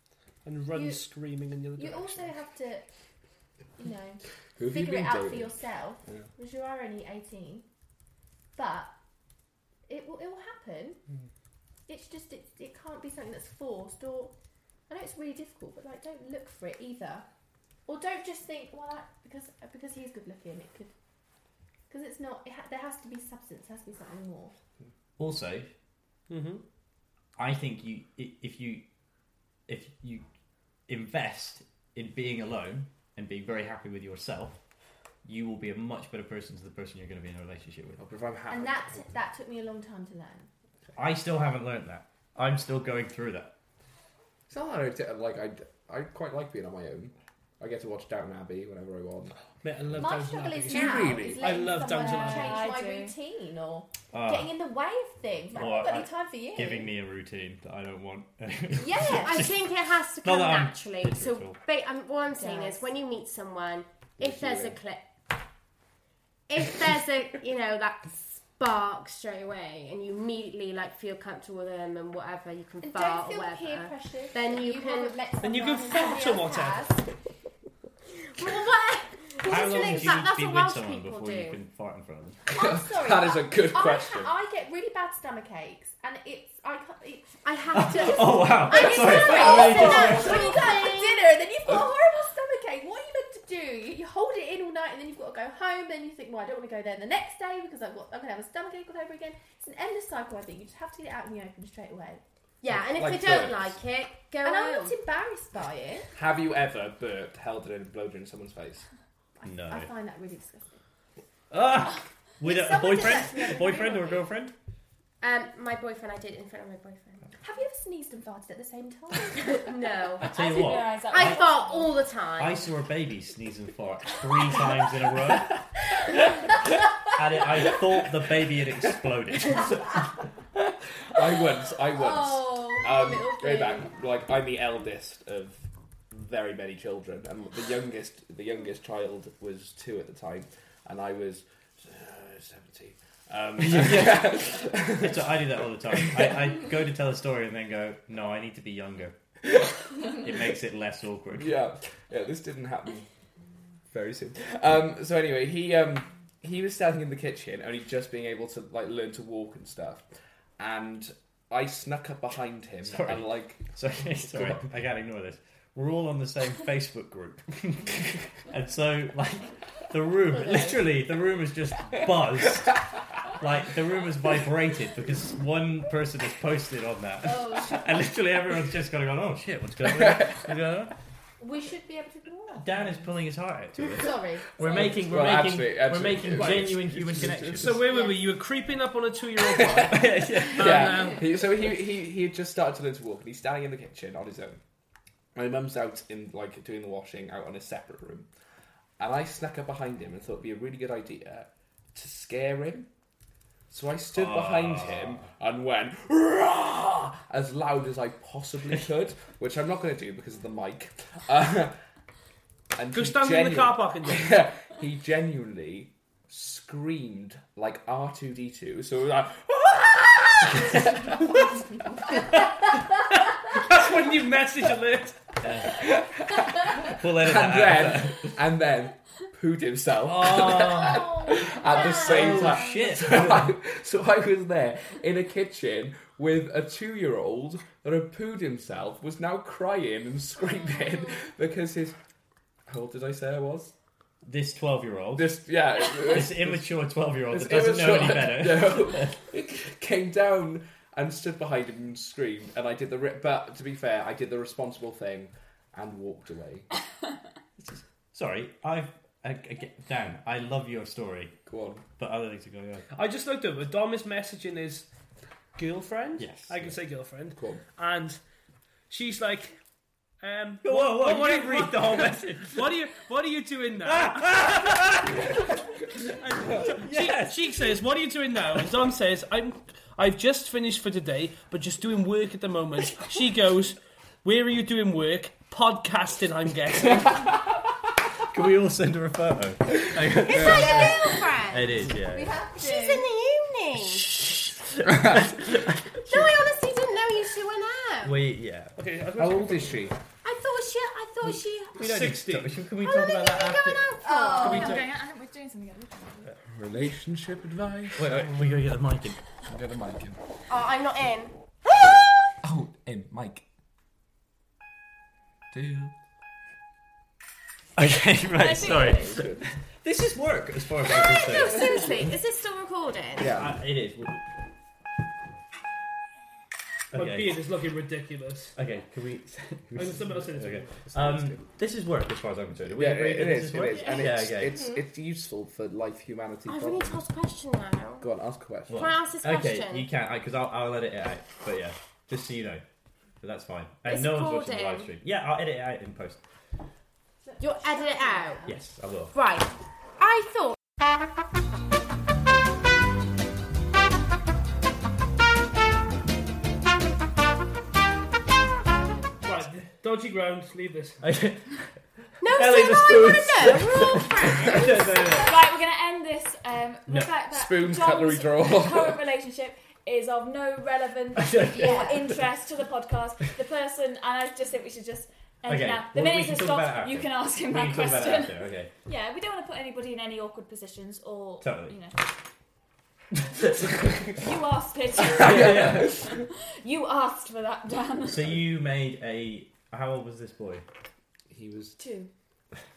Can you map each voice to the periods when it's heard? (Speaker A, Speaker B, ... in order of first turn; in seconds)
Speaker A: 0.5-2.3, 26.3-26.6, 49.6-52.7, 75.4-77.0, 187.5-191.3, 212.9-214.4, 223.5-225.4, 262.9-264.9, 265.6-268.2, 268.9-269.6, 270.2-274.7, 276.6-287.3, 298.8-299.9, 301.8-302.6, 304.5-304.9, 326.9-328.6, 329.8-331.0, 359.2-361.0
Speaker B: 0.7-1.1, 1.8-2.9, 3.8-7.7, 8.6-8.9, 9.9-11.0, 11.9-14.3, 14.9-17.2, 17.9-20.9, 21.9-24.5, 38.5-40.5, 50.0-56.9, 58.7-59.5, 62.4-62.9, 72.8-77.1, 82.5-87.4, 88.7-102.2, 104.4-106.1, 109.4-110.8, 112.4-114.3, 117.4-119.6, 131.9-133.9, 177.2-177.8, 181.4-183.1, 184.0-184.9, 187.9-188.3, 231.0-232.4, 290.3-293.1, 304.0-304.8, 347.2-348.6, 371.5-372.0
Speaker C: 4.6-6.2, 38.0-39.1, 44.5-49.3, 50.7-51.6, 64.2-64.8, 82.6-84.3, 89.9-90.3, 102.7-103.8, 106.2-108.9, 131.1-146.5, 151.4-153.1, 153.9-160.1, 160.6-163.7, 164.3-164.7, 184.6-187.8, 190.5-194.6, 195.3-198.3, 199.0-202.9, 203.7-211.8, 212.8-221.2, 225.6-242.0, 242.7-243.7, 245.2-246.7, 247.3-256.7, 261.5-261.9, 267.4-267.6, 299.2-299.9, 306.5-308.6, 309.5-310.2, 312.4-313.4, 315.5-315.9, 319.1-319.5, 321.5-322.1, 323.2-323.6, 331.0-331.4, 332.7-337.1, 338.0-338.9, 367.3-369.0, 385.3-386.1, 391.3-391.8
Speaker D: 25.2-25.7, 27.4-28.8, 29.7-30.2, 30.9-34.6, 35.2-38.0, 41.0-43.5, 54.1-54.5, 55.5-59.6, 60.2-61.6, 79.5-82.4, 87.7-90.5, 109.5-109.9, 111.5-114.5, 120.2-121.5, 122.4-125.5, 127.0-130.0, 143.6-149.1, 150.0-151.6, 162.8-180.9, 182.6-187.8, 189.6-190.9, 204.2-205.3, 225.4-225.9, 226.8-228.3, 230.1-233.6, 244.2-249.2, 257.6-261.4, 262.0-262.9, 266.2-266.8, 270.6-272.8, 273.8-275.4, 276.1-277.8, 288.3-292.3, 293.9-296.3, 298.0-298.8, 301.8-303.9, 308.0-309.2, 317.8-322.0, 323.3-324.2, 326.9-327.4, 328.6-334.6, 338.7-342.6, 343.2-346.2, 348.5-349.1, 361.0-365.3, 366.9-367.1, 371.1-372.2, 375.5-378.7, 381.4-381.8, 385.2-386.1, 388.1-390.6
Speaker E: 50.7-51.3, 59.2-65.1, 66.5-75.2, 78.3-81.6, 87.4-91.3, 102.6-105.0, 115.2-117.3, 119.4-122.6, 290.2-291.8, 292.6-294.2, 296.0-298.2, 300.2-301.9, 302.8-304.8, 310.5-311.4, 320.9-323.3, 336.5-338.1, 338.7-339.9, 343.9-344.9, 347.4-348.4, 349.1-350.6, 362.2-365.3
Speaker F: 52.0-53.1, 120.3-122.0, 304.2-306.3, 318.4-319.2, 333.6-334.2, 365.1-382.0, 384.1-388.3, 391.8-392.1